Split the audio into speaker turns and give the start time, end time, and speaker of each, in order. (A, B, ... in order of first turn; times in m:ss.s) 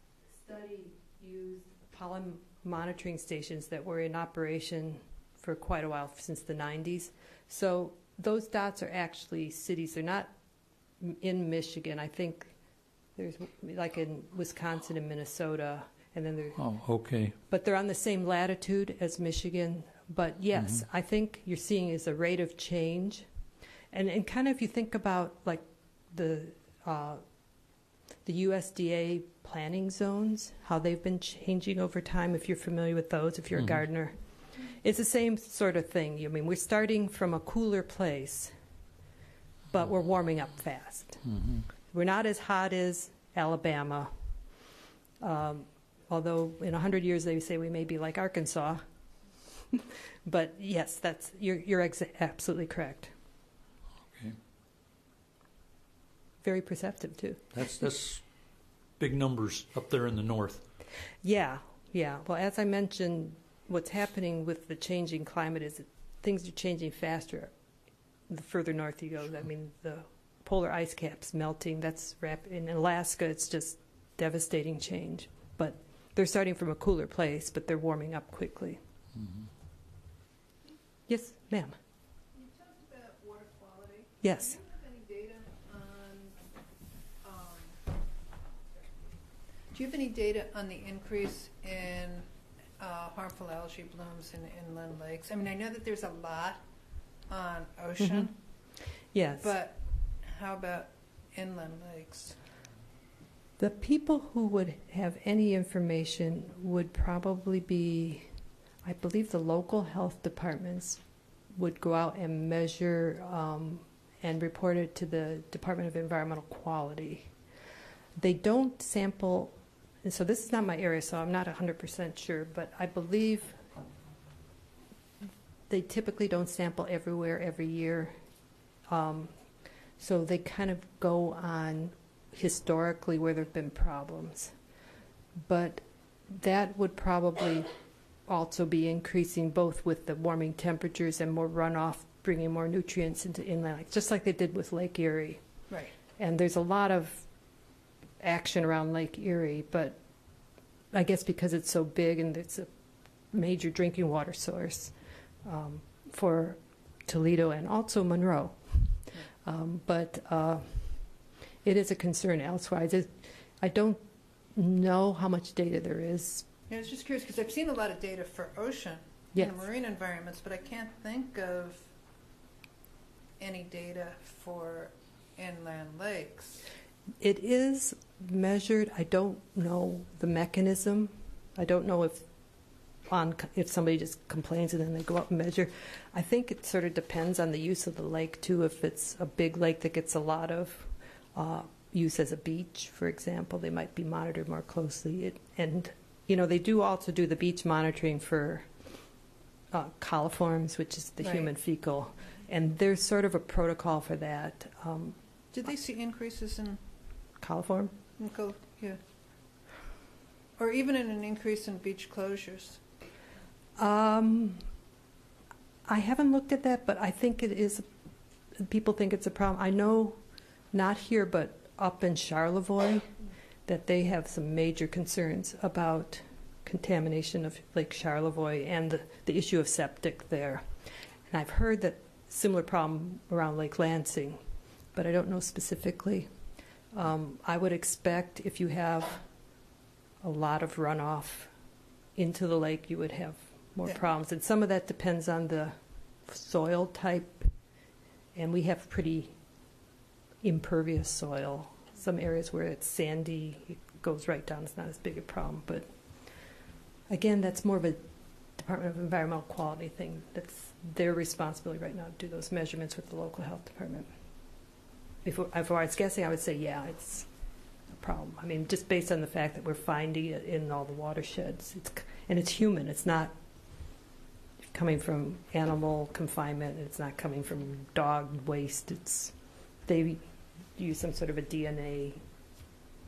0:00.3-0:10.3 A
0:11.0-0:12.5 A
0:13.2-0:16.6 A
0:16.6-0:17.3 B
0:17.5-0:23.3 A
0:23.9-0:27.2 A
0:28.2-0:38.5 A
0:39.7-0:41.2 A
0:41.3-0:41.6 B
0:41.9-0:44.1 A
0:45.2-0:48.8 A
0:49.7-0:53.1 A
0:56.4-0:57.5 A
0:57.5-0:58.2 B
0:59.0-1:00.6 B
1:01.2-1:07.5 A
1:08.3-1:18.8 A
1:21.1-1:21.8 A
1:22.3-1:26.4 C
1:24.2-1:24.6 A
1:27.2-1:27.8 C
1:29.7-1:32.3 C
1:32.8-1:36.6 C
1:37.3-1:38.3 C
1:38.0-1:38.3 A
1:39.1-1:39.5 A
1:39.4-1:42.4 C
1:43.6-1:48.3 A
1:48.8-1:51.0 A
1:51.5-1:57.3 A
1:58.2-1:59.5 A
2:00.0-2:03.6 A
2:05.7-2:08.1 A
2:08.9-2:09.3 A
2:10.0-2:14.5 A
2:15.4-2:17.7 A
2:18.3-2:25.4 A
2:26.2-2:27.2 A
2:28.2-2:30.0 A
2:30.9-2:32.7 A
2:33.3-2:34.9 A
2:35.4-2:41.0 A
2:41.6-2:44.0 A
2:44.5-2:46.4 A
2:46.7-2:51.9 C
2:53.4-2:56.6 C
2:57.2-3:02.2 A
3:03.1-3:18.7 A
3:19.7-3:25.2 A
3:21.2-3:21.5 C
3:25.5-3:26.8 C
3:27.4-3:27.9 A
3:28.2-3:29.0 C
3:30.6-3:32.8 C
3:33.8-3:34.6 A
3:35.9-3:37.9 A
3:38.6-3:40.2 A
3:40.7-3:43.1 A
3:43.6-3:50.7 A
3:51.3-3:54.4 A
3:54.9-3:56.3 A
3:56.9-3:59.2 A
4:00.2-4:01.5 A
4:02.2-4:05.7 A
4:06.2-4:07.5 A
4:08.3-4:09.3 A
4:10.4-4:15.9 A
4:17.1-4:18.0 A
4:18.6-4:24.1 A
4:25.2-4:27.3 A
4:27.9-4:33.3 A
4:34.7-4:39.3 A
4:39.8-4:40.2 A
4:40.8-4:42.2 A